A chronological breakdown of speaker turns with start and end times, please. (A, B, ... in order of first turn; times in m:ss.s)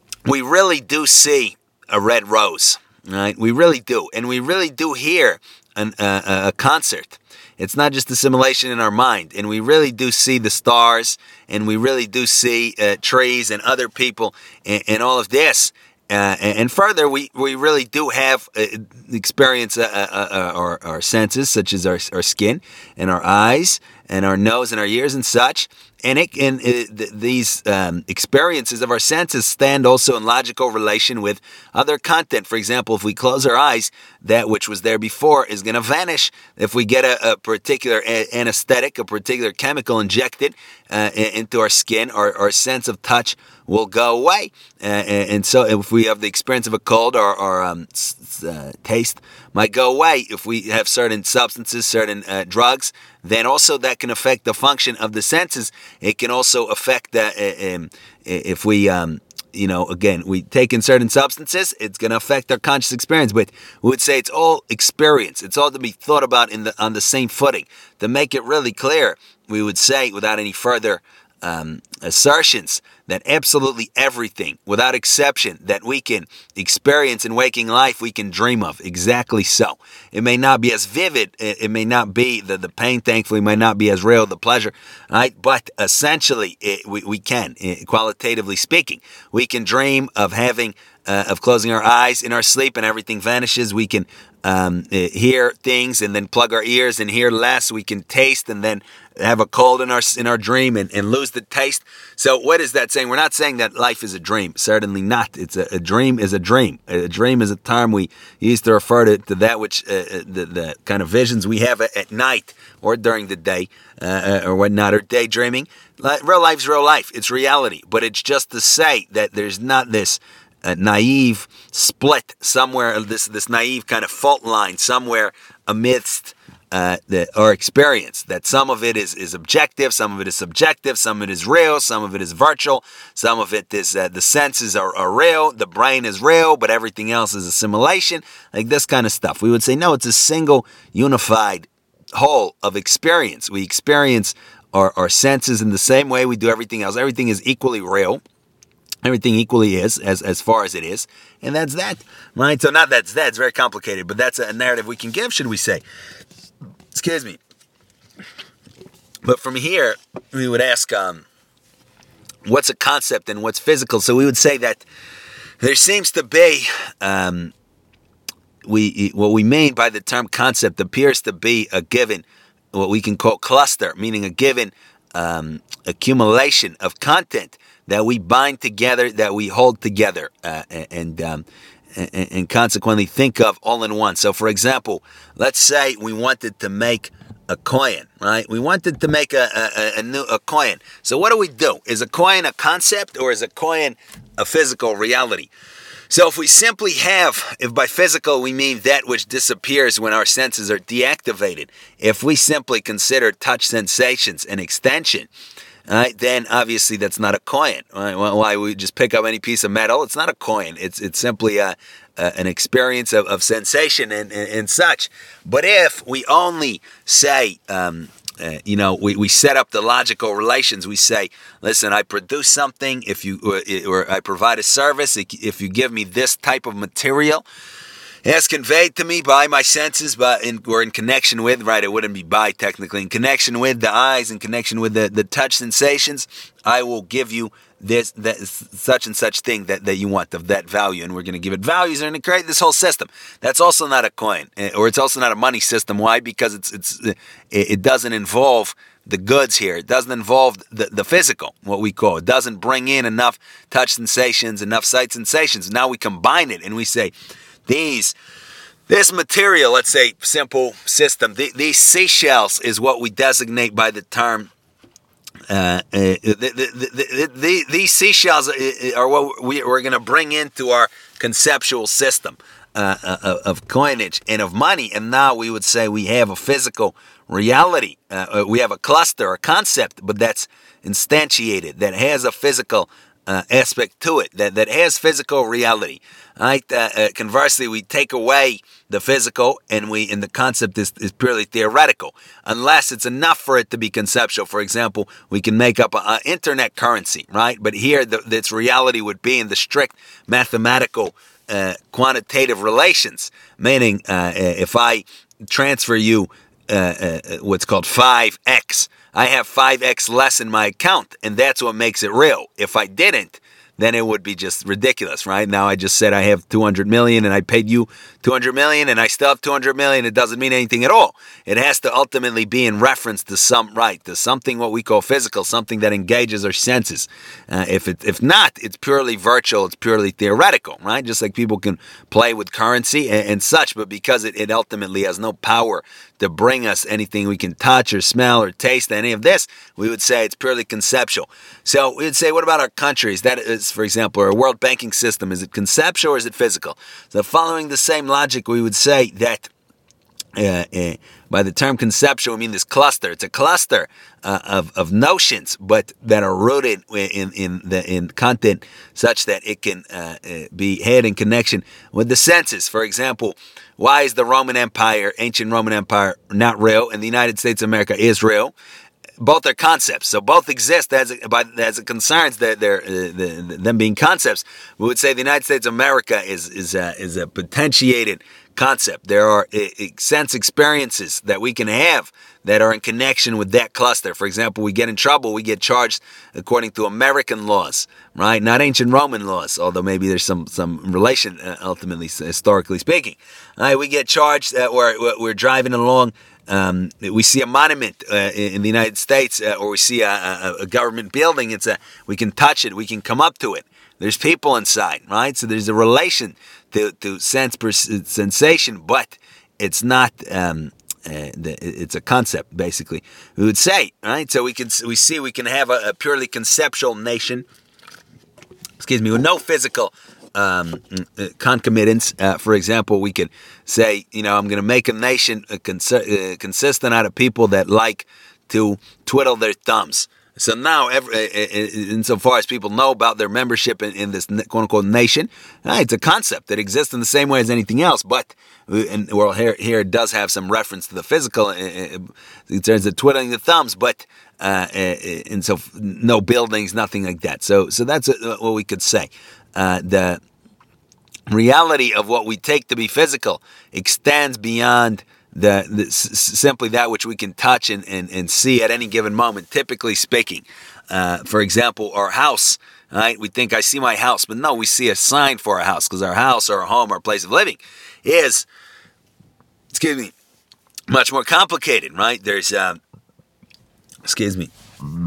0:00.2-2:28.2 A
2:29.0-2:35.8 A
2:36.9-2:37.4 A
2:39.2-2:41.2 A
2:42.4-2:44.8 A
2:45.6-2:47.5 A
2:48.6-3:15.5 A
3:16.1-3:25.3 A
3:25.9-3:47.4 A
3:48.2-4:17.1 A
4:17.6-4:18.1 A
4:18.9-4:24.5 A
4:25.5-5:49.5 A
5:50.3-6:08.5 A
6:09.2-6:57.4 A
6:58.8-7:30.2 A
7:31.3-7:48.5 A
7:49.7-7:50.1 A
7:50.9-7:52.8 A
7:54.0-7:54.5 A